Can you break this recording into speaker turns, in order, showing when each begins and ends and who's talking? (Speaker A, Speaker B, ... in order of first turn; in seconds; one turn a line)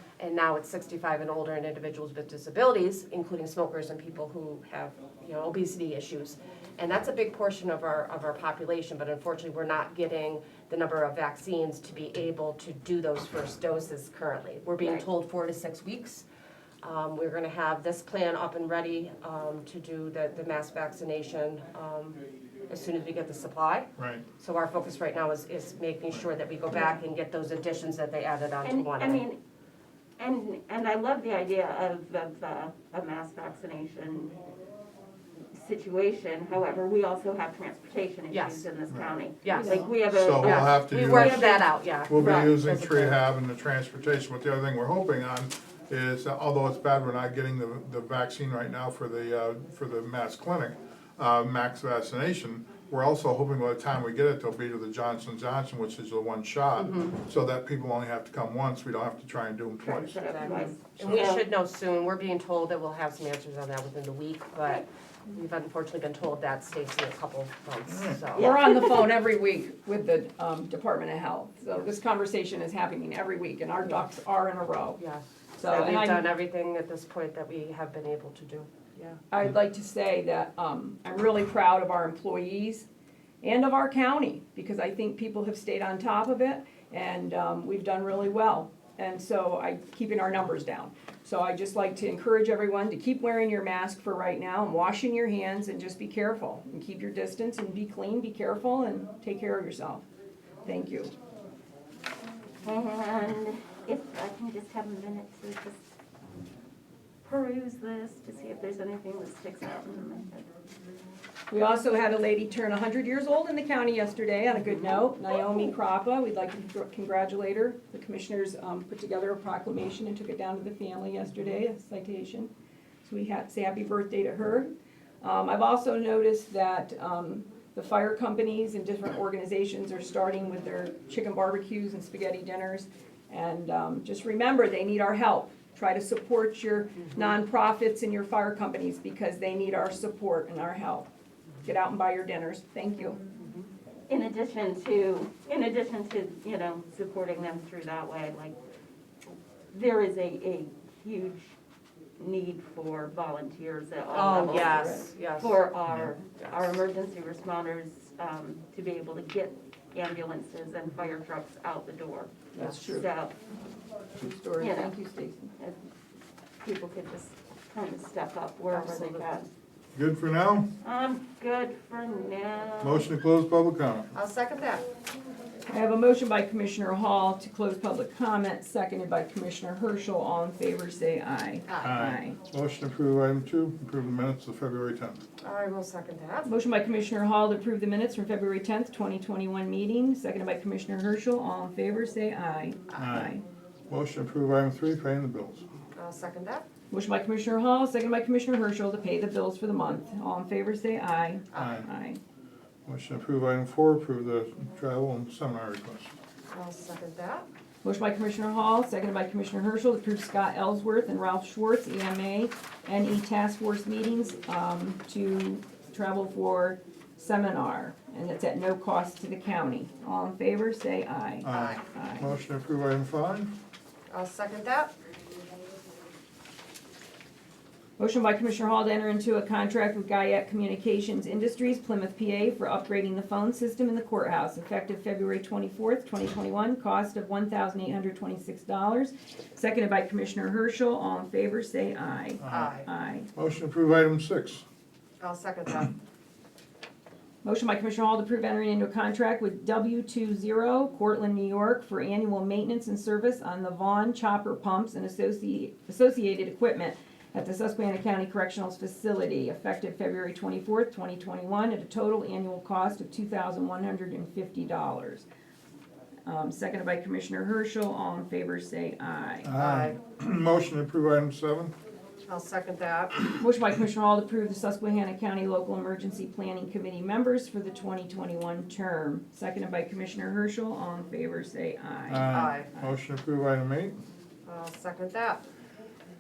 Speaker A: 0.2-16.2
Speaker A: 16.8-29.2
Speaker B: 24.0-24.2
Speaker C: 28.6-29.4
Speaker C: 30.2-34.4
Speaker C: 35.5-41.6
Speaker A: 38.3-38.7
Speaker B: 38.9-39.2
Speaker A: 39.4-39.9
Speaker D: 39.5-39.8
Speaker B: 40.0-60.4
Speaker A: 40.4-43.2
Speaker A: 56.8-57.2
Speaker C: 59.8-61.4
Speaker A: 60.2-68.5
Speaker B: 61.0-61.3
Speaker B: 67.9-68.2
Speaker D: 68.3-75.0
Speaker C: 68.4-69.0
Speaker A: 75.0-79.2
Speaker D: 75.6-76.3
Speaker D: 79.3-82.9
Speaker D: 83.4-100.0
Speaker D: 100.7-101.1
Speaker C: 102.6-105.8
Speaker C: 107.2-110.5
Speaker D: 111.5-122.5
Speaker D: 123.0-124.7
Speaker D: 125.2-141.1
Speaker D: 141.6-143.2
Speaker C: 144.1-148.6
Speaker C: 149.7-151.5
Speaker C: 152.2-163.3
Speaker A: 154.1-155.6
Speaker D: 162.6-163.1
Speaker D: 164.2-165.5
Speaker C: 164.6-164.9
Speaker C: 165.6-165.9
Speaker C: 166.6-169.5
Speaker A: 168.7-169.3
Speaker B: 169.9-170.7
Speaker C: 170.8-173.1
Speaker B: 172.8-174.1
Speaker A: 174.1-174.8
Speaker D: 175.7-182.4
Speaker B: 181.8-185.2
Speaker A: 185.4-186.5
Speaker D: 186.4-193.4
Speaker B: 192.9-193.3
Speaker B: 193.9-195.7
Speaker A: 195.9-196.7
Speaker D: 196.9-202.2
Speaker B: 201.5-201.9
Speaker B: 202.9-206.1
Speaker A: 206.5-207.4
Speaker D: 207.8-222.3
Speaker B: 221.4-223.6
Speaker A: 221.5-221.8
Speaker A: 224.1-224.9
Speaker D: 228.0-243.3
Speaker B: 242.4-242.7
Speaker A: 242.4-242.9
Speaker B: 243.3-244.7
Speaker A: 245.2-245.9
Speaker D: 247.4-265.3
Speaker D: 266.3-269.5
Speaker B: 269.4-271.7
Speaker A: 269.6-270.0
Speaker A: 272.2-273.2
Speaker D: 273.4-282.3
Speaker B: 282.1-284.0
Speaker A: 282.3-282.7
Speaker A: 284.5-285.4